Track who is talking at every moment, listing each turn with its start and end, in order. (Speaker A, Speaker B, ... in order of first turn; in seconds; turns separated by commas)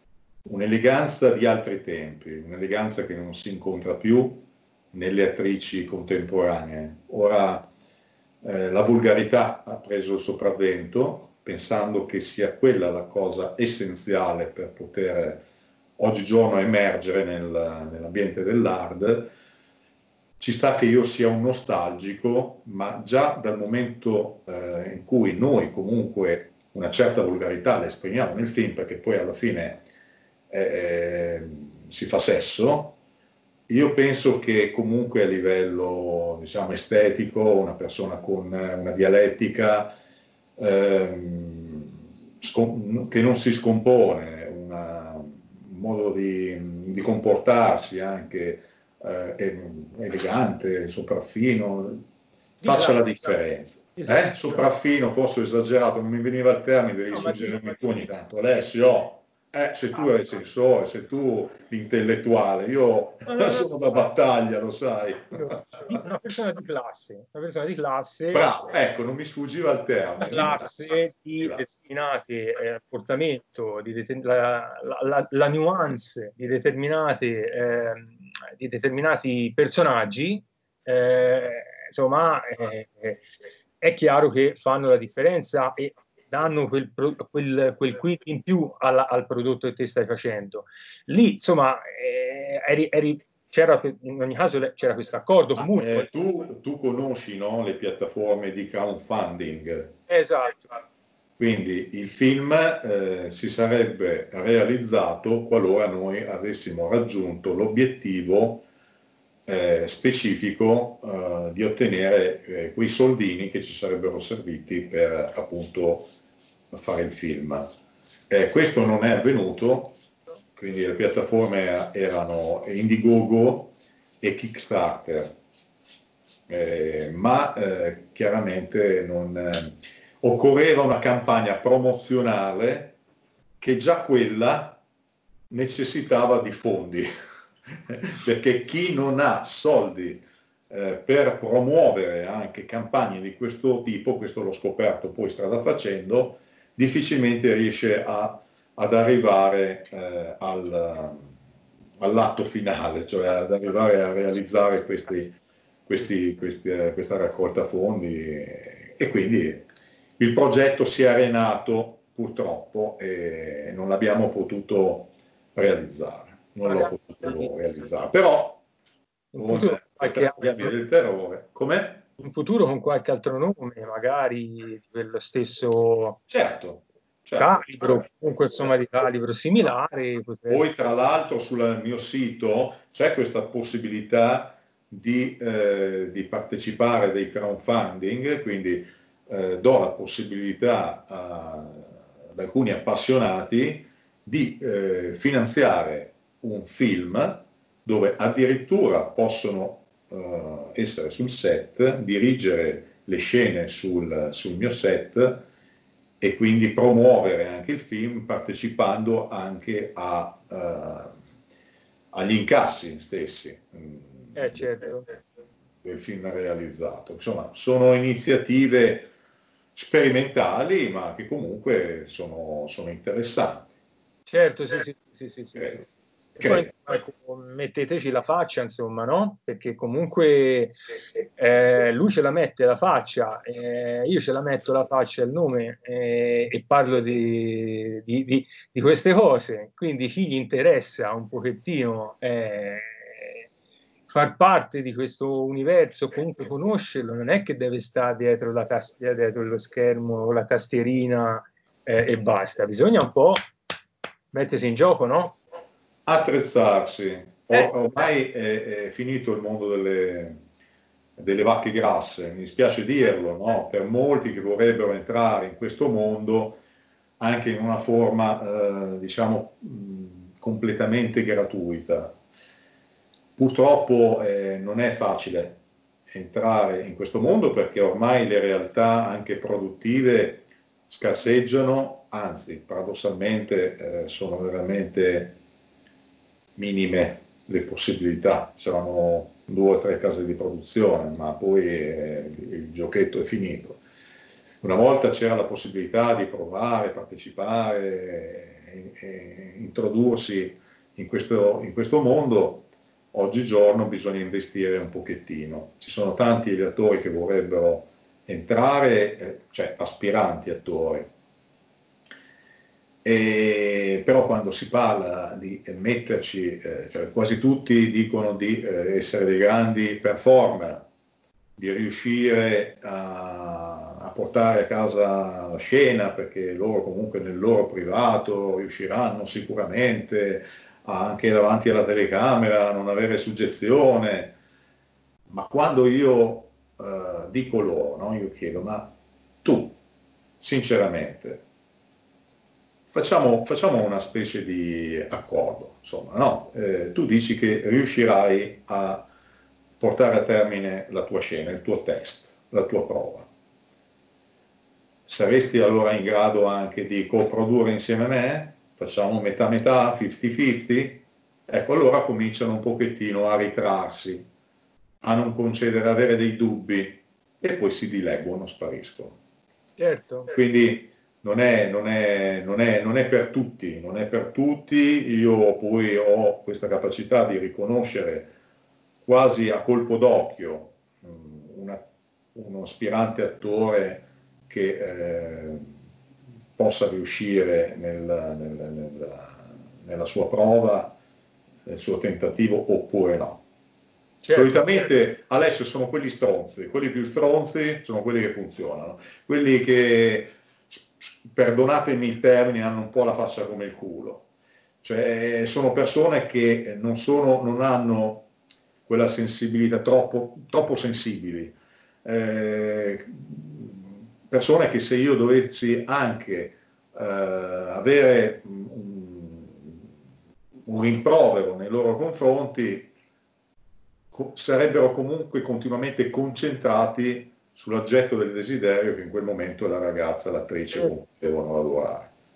Speaker A: 0.4-7.7, Speaker A: 8.4-15.4, Speaker A: 16.0-19.3, Speaker A: 20.4-29.8, Speaker A: 30.5-33.0, Speaker A: 33.7-39.9, Speaker A: 40.6-52.0, Speaker B: 52.6-53.0, Speaker A: 52.6-65.6, Speaker B: 57.1-57.7, Speaker B: 63.2-63.7, Speaker B: 65.3-68.5, Speaker A: 68.3-71.6, Speaker B: 70.2-83.2, Speaker B: 83.8-96.1, Speaker A: 95.6-100.0, Speaker B: 100.1-100.8, Speaker A: 101.4-108.7, Speaker A: 109.5-116.1, Speaker A: 116.7-117.7, Speaker A: 118.3-120.0, Speaker A: 120.5-125.3, Speaker A: 126.5-133.0, Speaker A: 133.6-134.8, Speaker A: 135.5-137.1, Speaker A: 137.9-151.3, Speaker A: 152.0-159.7, Speaker A: 160.2-168.6, Speaker B: 166.7-167.5, Speaker B: 169.3-170.7, Speaker A: 169.3-172.0, Speaker B: 172.2-176.2, Speaker A: 176.3-178.0, Speaker B: 177.4-180.6, Speaker A: 180.5-205.4, Speaker A: 206.2-211.1, Speaker A: 212.1-214.7, Speaker B: 214.3-215.1, Speaker A: 215.8-219.1, Speaker A: 219.7-223.7, Speaker B: 224.3-230.8, Speaker A: 226.4-226.7, Speaker B: 231.4-243.4, Speaker B: 244.1-253.4, Speaker B: 254.3-255.4, Speaker A: 256.1-260.4, Speaker A: 261.2-266.6, Speaker A: 267.2-272.1, Speaker A: 273.4-285.4, Speaker A: 286.6-293.8, Speaker A: 294.6-311.1, Speaker A: 313.0-320.9, Speaker A: 321.6-334.4, Speaker A: 335.3-339.8, Speaker A: 340.4-341.4, Speaker A: 342.9-349.1, Speaker A: 349.8-353.3, Speaker A: 355.1-364.3, Speaker A: 365.0-369.2, Speaker B: 369.8-370.3, Speaker A: 370.3-378.3, Speaker A: 379.1-381.8, Speaker A: 382.3-385.7, Speaker A: 386.6-390.9, Speaker A: 391.6-393.4, Speaker B: 394.2-394.8, Speaker A: 394.3-404.2, Speaker A: 404.8-408.3, Speaker A: 408.9-419.8, Speaker A: 420.7-422.9, Speaker A: 424.1-432.1